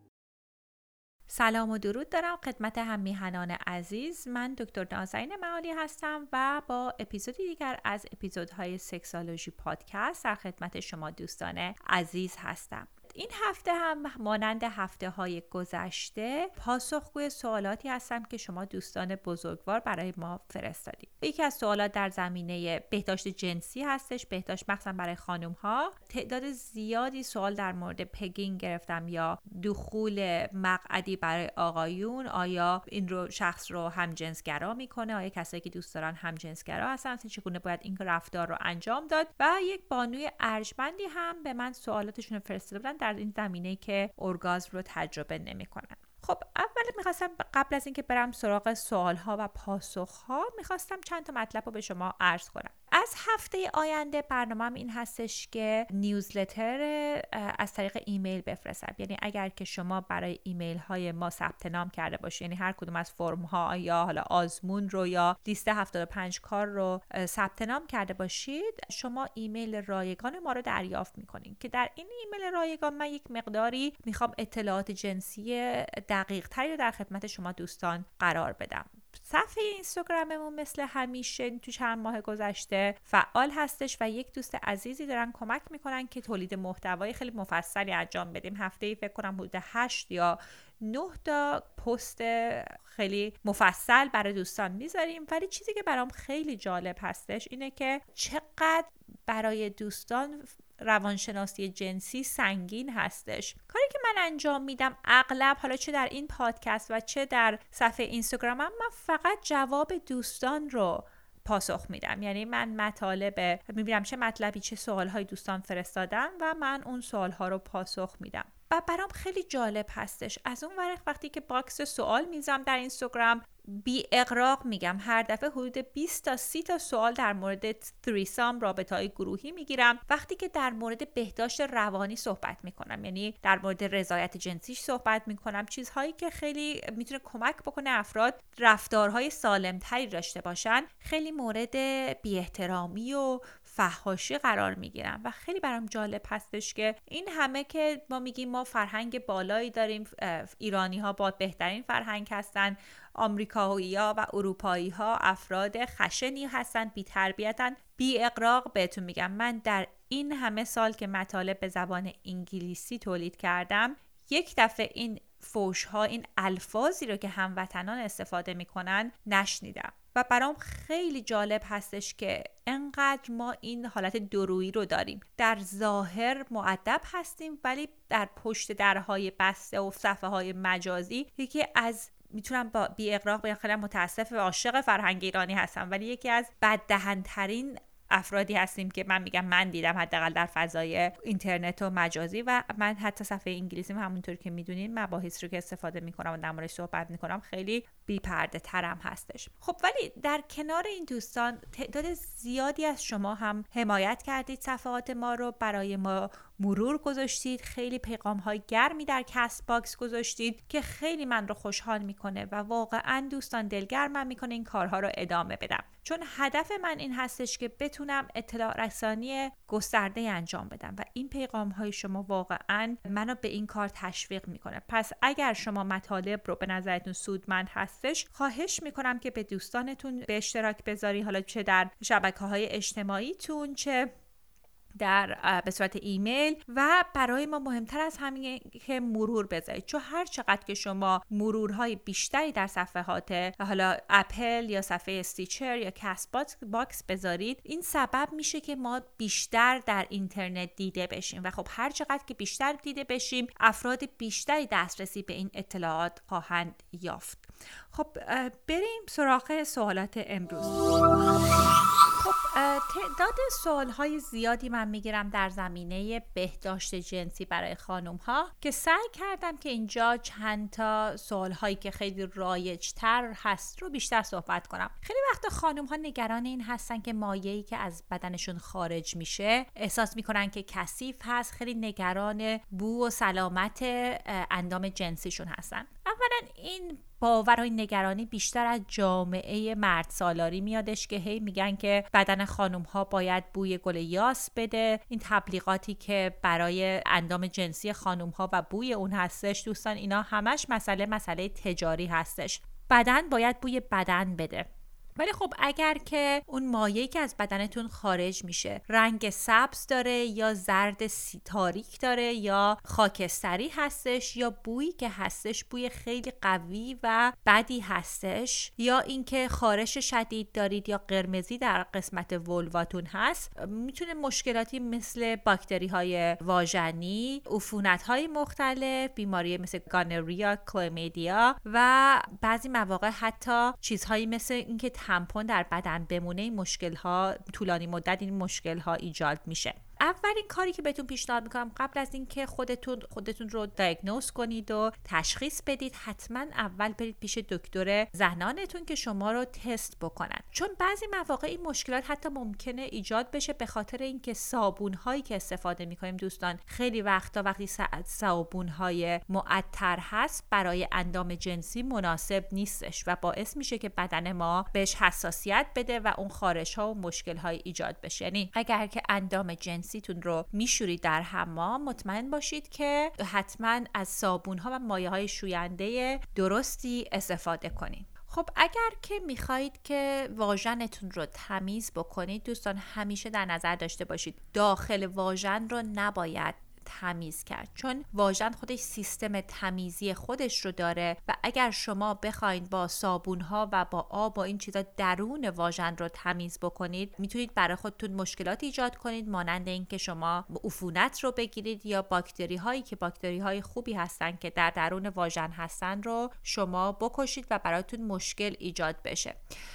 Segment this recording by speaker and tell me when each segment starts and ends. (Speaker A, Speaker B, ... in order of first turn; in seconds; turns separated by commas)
Speaker A: 1.3-234.1, Speaker A: 235.0-260.9, Speaker A: 262.2-409.4